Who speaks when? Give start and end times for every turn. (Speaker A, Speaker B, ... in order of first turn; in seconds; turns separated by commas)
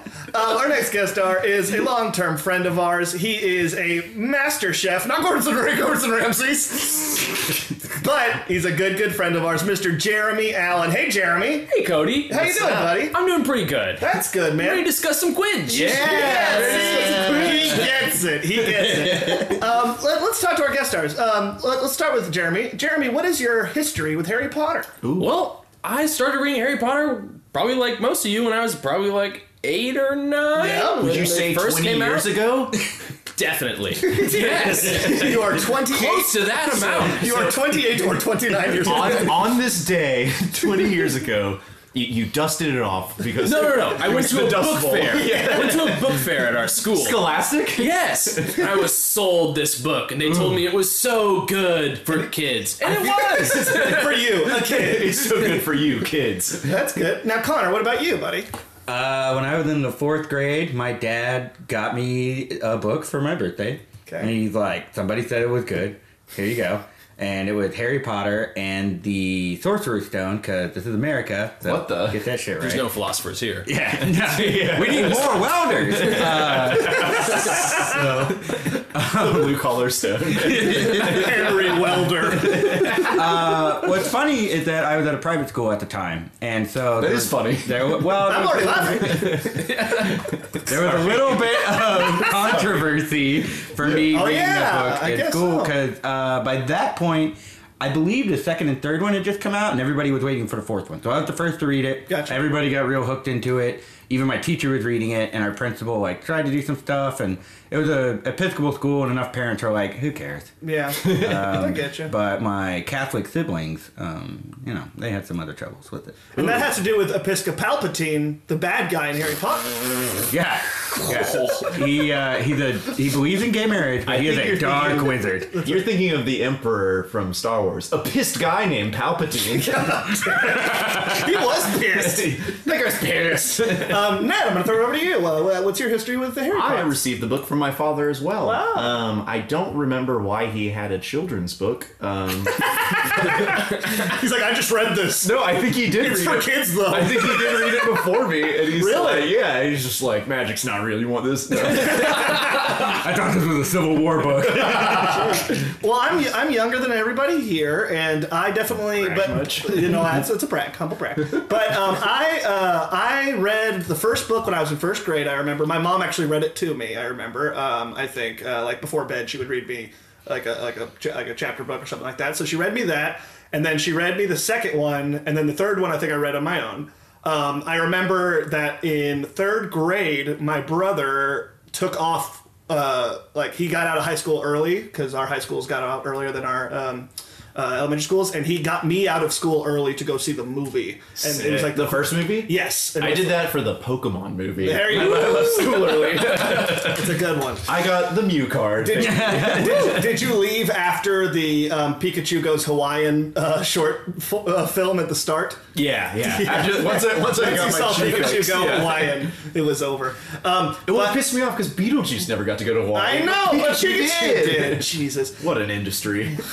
Speaker A: 0.3-11.7, Speaker B: 11.7-14.0, Speaker A: 12.3-13.2, Speaker A: 14.0-14.9, Speaker B: 14.6-17.9, Speaker C: 15.7-18.0, Speaker A: 15.7-24.9, Speaker C: 25.0-25.4, Speaker B: 25.2-32.6, Speaker A: 30.6-31.5, Speaker C: 31.0-32.8, Speaker B: 33.4-37.7, Speaker A: 34.0-39.5, Speaker C: 34.8-35.4, Speaker C: 38.8-46.3, Speaker B: 43.4-47.2, Speaker C: 46.9-48.9, Speaker B: 47.8-54.2, Speaker C: 50.2-50.6, Speaker A: 52.8-55.6, Speaker C: 53.6-56.8, Speaker A: 56.6-58.5, Speaker D: 58.9-72.9, Speaker A: 64.1-64.3, Speaker C: 71.6-72.2, Speaker B: 72.6-73.7, Speaker D: 73.7-79.7, Speaker C: 73.9-83.4, Speaker D: 80.5-81.3, Speaker A: 80.7-83.0, Speaker D: 83.0-89.7, Speaker C: 87.0-88.1, Speaker A: 88.2-89.6, Speaker C: 89.0-92.9, Speaker D: 90.7-110.5, Speaker A: 93.8-95.7, Speaker A: 102.1-102.4, Speaker A: 110.6-112.1, Speaker D: 111.0-116.3, Speaker A: 116.3-119.8, Speaker C: 116.4-116.6, Speaker D: 120.3-125.6, Speaker C: 124.0-134.2, Speaker A: 124.5-125.9, Speaker A: 129.6-132.3, Speaker A: 133.7-137.0, Speaker C: 136.5-143.6, Speaker A: 138.4-139.0, Speaker A: 142.7-149.4, Speaker C: 145.2-152.5, Speaker D: 151.7-155.5, Speaker A: 154.7-193.5, Speaker C: 158.9-160.1, Speaker C: 191.2-197.2, Speaker A: 194.6-197.7, Speaker C: 197.7-200.4, Speaker A: 198.8-205.6, Speaker D: 198.9-200.0, Speaker C: 205.7-209.3, Speaker A: 206.2-211.2, Speaker C: 210.9-216.4, Speaker A: 212.9-215.5